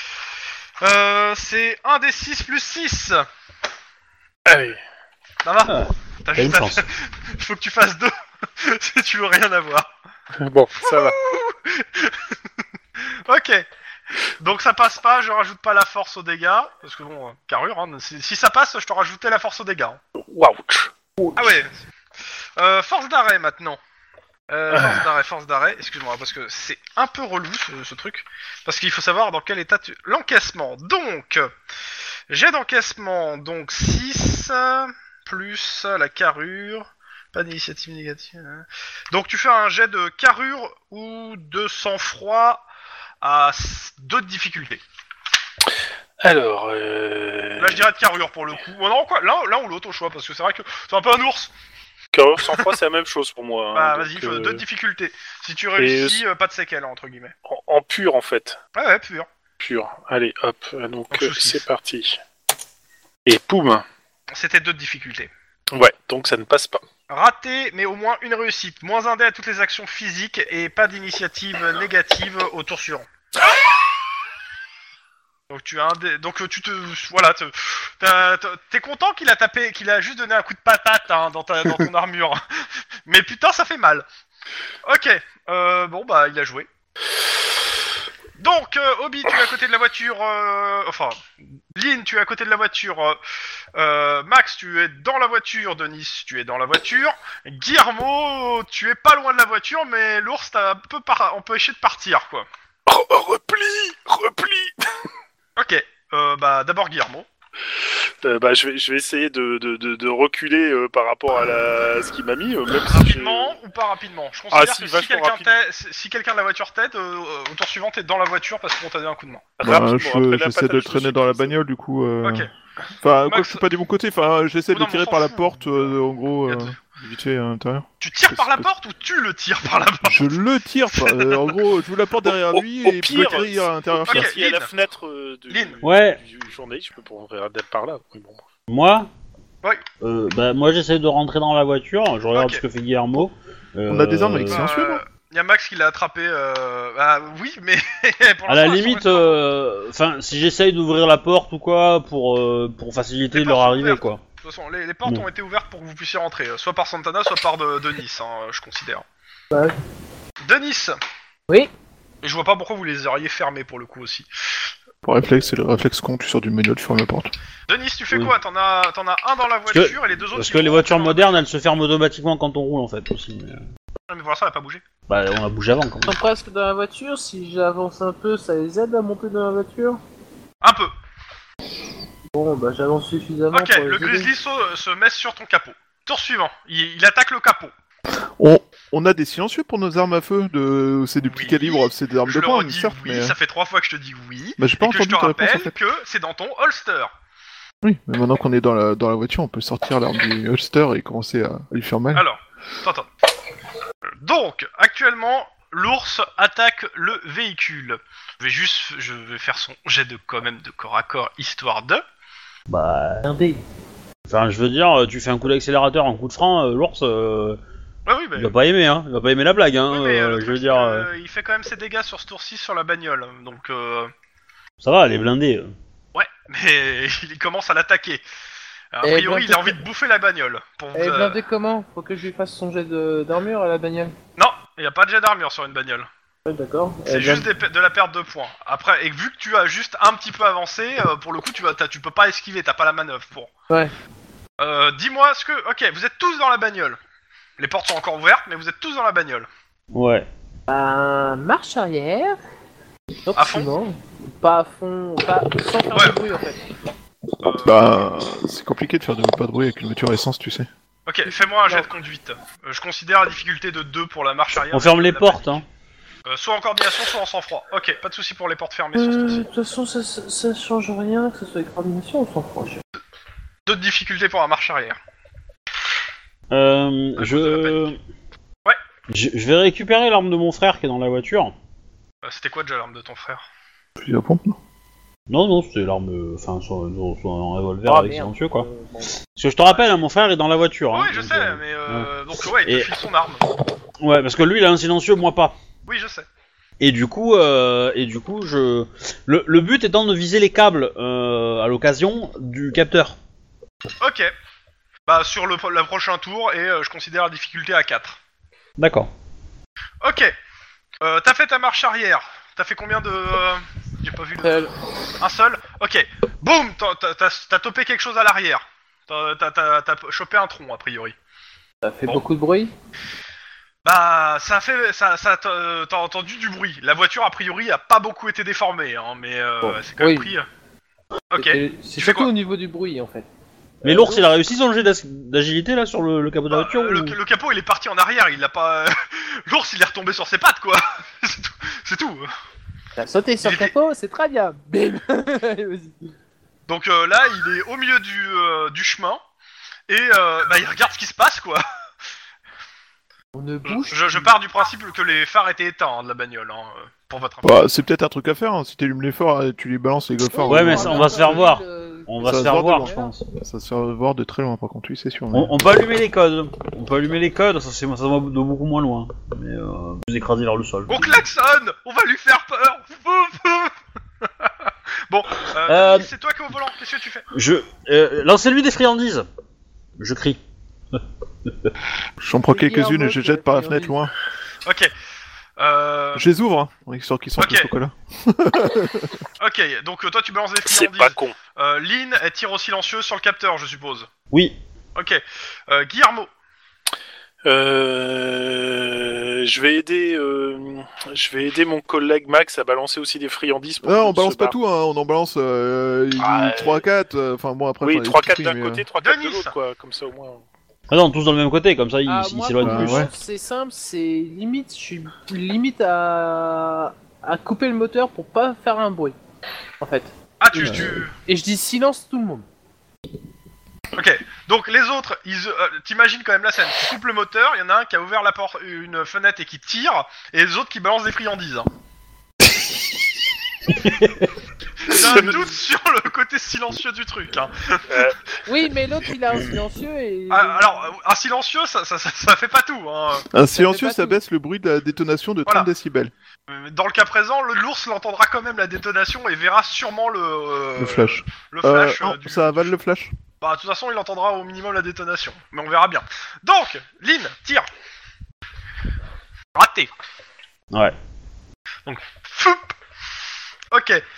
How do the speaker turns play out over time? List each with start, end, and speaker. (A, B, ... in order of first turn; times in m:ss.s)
0:00.8-0:03.3 A
0:04.5-0:04.8 B
0:05.4-0:09.9 A
0:05.7-0:06.9 C
0:10.4-0:11.2 B
0:10.8-0:12.3 A
0:13.1-0:13.7 A
0:14.4-0:20.0 A
0:20.2-0:21.4 B
0:21.4-0:21.7 A
0:22.6-0:23.8 A
0:24.5-0:31.5 A
0:24.7-0:25.1 B
0:32.3-0:42.7 A
0:43.2-0:44.8 A
0:46.2-0:47.8 B
0:47.6-0:51.5 A
0:52.1-0:54.6 B
0:53.8-0:57.3 A
0:55.8-0:56.2 B
0:57.5-0:58.6 B
0:58.8-0:59.3 A
0:59.6-1:02.2 B
1:01.1-1:01.6 A
1:03.3-1:03.8 B
1:04.3-1:05.3 A
1:05.7-1:06.8 B
1:07.1-1:13.1 A
1:15.5-1:22.4 A
1:23.1-1:24.0 A
1:24.8-1:26.7 A
1:28.4-1:31.2 A
1:31.8-1:33.2 A
1:33.8-1:42.5 A
1:42.9-1:44.8 B
1:45.6-1:47.3 A
1:48.2-1:53.6 B
1:52.9-1:59.5 A
1:54.5-1:55.6 B
1:59.6-2:01.5 B
1:59.6-2:02.5 D
2:02.2-2:02.5 A
2:03.0-2:08.7 D
2:03.2-2:03.6 A
2:04.7-2:06.0 A
2:06.5-2:06.8 A
2:08.0-2:10.4 A
2:10.0-2:14.3 D
2:11.0-2:11.5 A
2:12.5-2:18.4 B
2:14.1-2:14.7 A
2:15.5-2:15.8 A
2:15.8-2:16.2 C
2:18.7-2:19.1 C
2:20.0-2:24.7 C
2:22.4-2:22.6 A
2:23.9-2:25.0 D
2:24.5-2:29.4 A
2:28.5-2:34.2 C
2:33.3-2:39.0 A
2:40.4-2:41.0 A
2:42.2-2:44.3 A
2:45.0-2:47.3 D
2:47.7-2:51.4 A
2:49.7-2:53.6 C
2:54.1-2:54.8 A
2:55.1-2:56.2 C
2:56.1-3:00.0 E
3:00.6-3:00.9 A
3:02.3-3:04.3 E
3:03.5-3:07.7 A
3:08.4-3:13.4 D
3:11.2-3:17.1 A
3:14.6-3:15.8 D
3:17.8-3:22.2 D
3:22.1-3:23.1 A
3:24.2-3:32.0 A
3:32.7-3:33.3 C
3:33.2-3:33.6 E
3:34.3-3:37.6 C
3:38.1-3:38.5 A
3:38.4-3:41.1 C
3:39.9-3:44.1 A
3:44.8-3:45.7 C
3:46.1-3:48.2 A
3:48.9-3:51.4 A
3:49.0-3:49.8 E
3:51.0-3:54.2 E
3:54.4-3:56.1 A
3:56.4-3:57.5 E
3:57.1-4:03.5 A
4:04.6-4:07.0 A
4:07.6-4:09.5 A
4:09.9-4:10.3 C
4:10.7-4:12.4 E
4:13.3-4:16.6 E
4:13.4-4:13.7 A
4:15.9-4:16.2 A
4:17.4-4:17.9 A
4:17.6-4:20.7 D
4:21.1-4:25.6 A
4:24.7-4:25.6 C
4:26.3-4:29.5 A
4:29.0-4:32.8 E
4:33.7-4:35.0 A
4:36.5-4:38.0 C
4:37.2-4:37.9 A
4:39.1-4:41.6 C
4:42.2-4:43.4 A
4:44.0-4:44.6 D
4:45.3-4:48.7 C
4:47.8-4:49.1 E
4:49.4-4:52.9 C
4:49.7-4:50.0 A
4:50.9-4:53.4 A
4:54.0-4:55.6 C
4:55.9-4:56.3 A
4:56.8-5:03.2 C
5:04.0-5:04.3 A
5:05.1-5:08.2 A
5:08.8-5:09.1 C
5:10.0-5:10.3 A
5:11.0-5:14.7 A
5:14.4-5:14.7 E
5:15.2-5:21.2 A
5:21.8-5:22.7 E
5:23.8-5:30.5 A
5:29.6-5:30.3 E
5:31.3-5:32.3 A
5:31.4-5:33.3 E
5:33.8-5:34.3 E
5:33.8-5:37.2 C
5:36.5-5:42.3 A
5:43.0-5:46.1 E
5:43.4-5:43.7 A
5:46.7-5:49.2 A
5:49.9-5:51.6 A
5:53.4-5:54.3 E
5:53.7-5:57.7 A
5:57.4-6:01.4 D
6:00.2-6:03.1 E
6:00.5-6:03.2 C
6:02.2-6:05.5 D
6:05.3-6:11.2 C
6:10.9-6:17.3 A
6:15.7-6:16.1 C
6:17.3-6:19.3 C
6:20.0-6:20.4 C
6:22.2-6:24.1 D
6:22.5-6:24.0 E
6:24.6-6:24.9 A
6:25.6-6:26.3 A
6:26.2-6:29.2 D
6:27.4-6:27.7 A
6:29.4-6:34.1 A
6:30.6-6:31.4 B
6:34.3-6:34.6 C
6:35.0-6:36.3 A
6:37.4-6:44.6 B
6:43.8-6:48.8 D
6:46.2-6:46.8 B
6:47.8-6:50.4 B
6:49.0-6:49.5 A
6:50.9-6:53.1 C
6:52.1-6:59.2 E
6:52.6-6:53.1 D
6:59.8-7:02.4 E
7:00.4-7:01.1 A
7:04.0-7:11.7 A
7:13.7-7:14.3 C
7:14.8-7:18.1 A
7:14.9-7:15.4 B
7:17.9-7:18.2 B
7:18.5-7:20.7 E
7:20.3-7:23.3 A
7:23.3-7:26.1 D
7:23.5-7:24.2 E
7:26.5-7:32.7 A
7:30.8-7:33.1 D
7:33.4-7:37.7 A
7:39.6-7:39.9 A
7:41.9-7:42.7 A
7:43.7-7:44.0 A